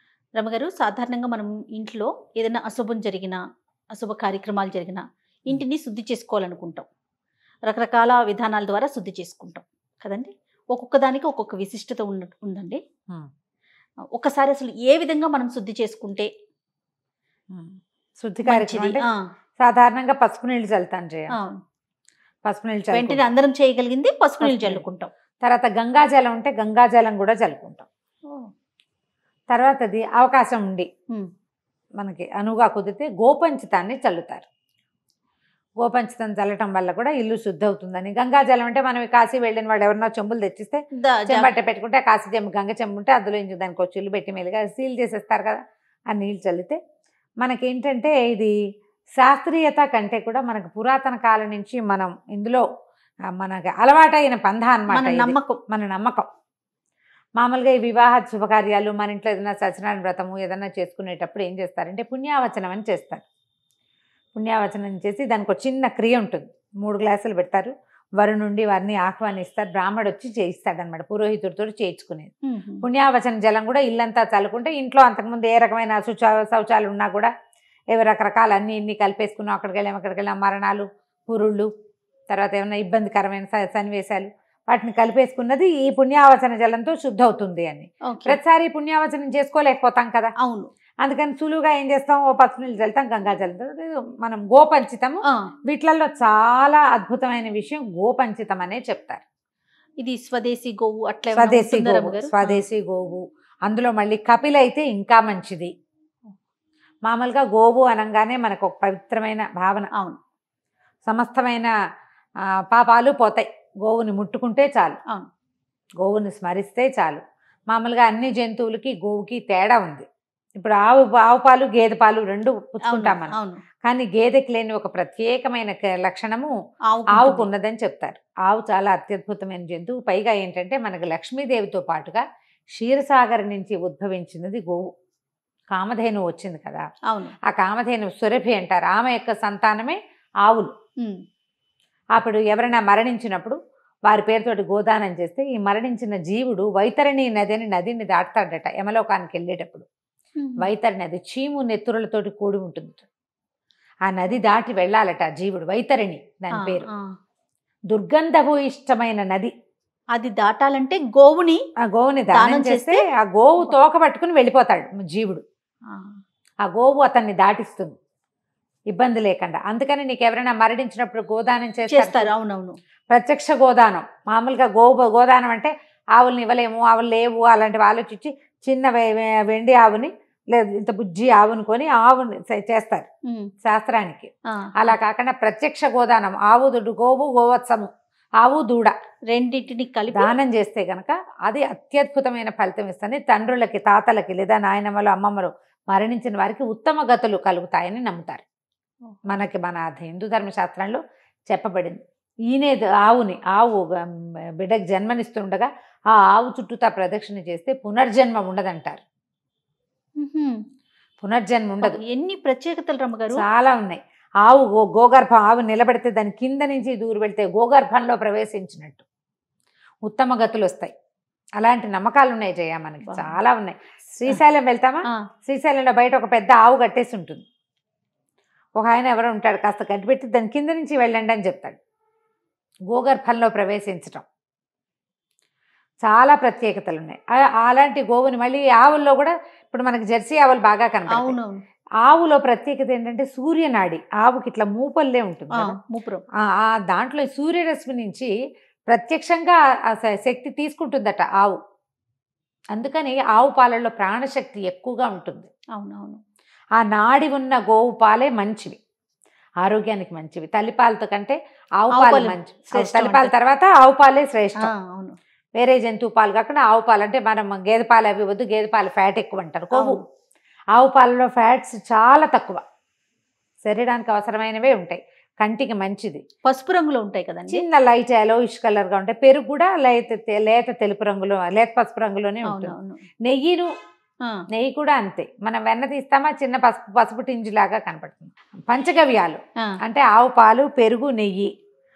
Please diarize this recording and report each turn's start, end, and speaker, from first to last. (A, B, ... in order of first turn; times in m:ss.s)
0:00.4-0:03.4 A
0:04.0-0:06.9 A
0:07.7-0:12.8 A
0:14.2-0:16.3 A
0:17.5-0:19.0 B
0:18.5-0:19.1 A
0:19.6-0:21.3 B
0:22.5-0:23.2 B
0:22.9-0:25.1 A
0:24.4-0:24.8 B
0:25.4-0:27.9 B
0:29.5-0:30.9 B
0:32.0-0:34.5 B
0:35.8-0:45.6 B
0:41.0-0:41.5 A
0:46.1-0:46.8 B
0:47.4-0:48.5 B
0:49.2-0:52.6 B
0:53.4-0:56.3 B
0:54.9-0:55.6 A
0:57.4-1:03.2 B
1:04.4-1:12.3 B
1:12.5-1:12.8 A
1:12.8-1:17.3 B
1:17.9-1:21.7 B
1:22.3-1:30.3 B
1:28.1-1:28.4 A
1:30.4-1:30.7 A
1:31.0-1:39.2 B
1:40.0-1:42.6 A
1:41.3-1:45.7 B
1:47.1-1:49.9 B
1:51.1-1:51.7 B
1:52.7-1:55.0 B
1:56.0-2:00.1 B
2:00.6-2:06.5 B
2:02.9-2:03.6 A
2:06.9-2:07.5 A
2:07.2-2:12.2 B
2:12.7-2:14.9 B
2:15.7-2:16.8 B
2:17.5-2:20.7 B
2:22.2-2:23.6 B
2:24.1-2:29.9 B
2:30.4-2:30.7 A
2:30.6-2:33.0 B
2:34.1-2:36.9 B
2:36.6-2:37.0 A
2:37.9-2:39.5 B
2:40.2-2:41.6 A
2:41.9-2:45.4 B
2:42.3-2:43.0 A
2:46.6-2:47.9 B
2:48.9-2:52.3 B
2:51.9-2:52.8 A
2:53.1-3:03.1 B
3:03.6-3:08.9 B
3:09.3-3:10.3 A
3:10.1-3:18.4 B
3:19.3-3:22.0 B
3:22.5-3:23.9 B
3:24.6-3:25.7 B
3:26.2-3:29.0 B
3:30.2-3:30.6 A
3:31.2-3:32.0 B
3:31.8-3:33.4 A
3:33.4-3:39.0 B
3:40.1-3:40.9 B
3:41.6-3:47.4 B
3:43.1-3:43.4 A
3:48.8-3:51.8 B
3:52.9-3:54.2 B
3:56.0-4:01.4 B
4:01.1-4:01.6 A
4:02.0-4:05.8 B
4:05.6-4:06.2 A
4:06.5-4:08.3 B
4:08.9-4:11.6 B
4:12.8-4:15.5 B
4:15.8-4:16.2 A
4:16.8-4:18.8 B
4:19.6-4:24.7 B
4:21.9-4:23.3 A
4:24.6-4:25.2 A
4:25.6-4:30.0 B
4:29.7-4:30.0 A
4:30.8-4:32.6 B
4:33.6-4:36.2 B
4:36.4-4:37.6 A
4:37.5-4:43.7 B
4:42.5-4:43.0 A
4:44.5-4:51.5 B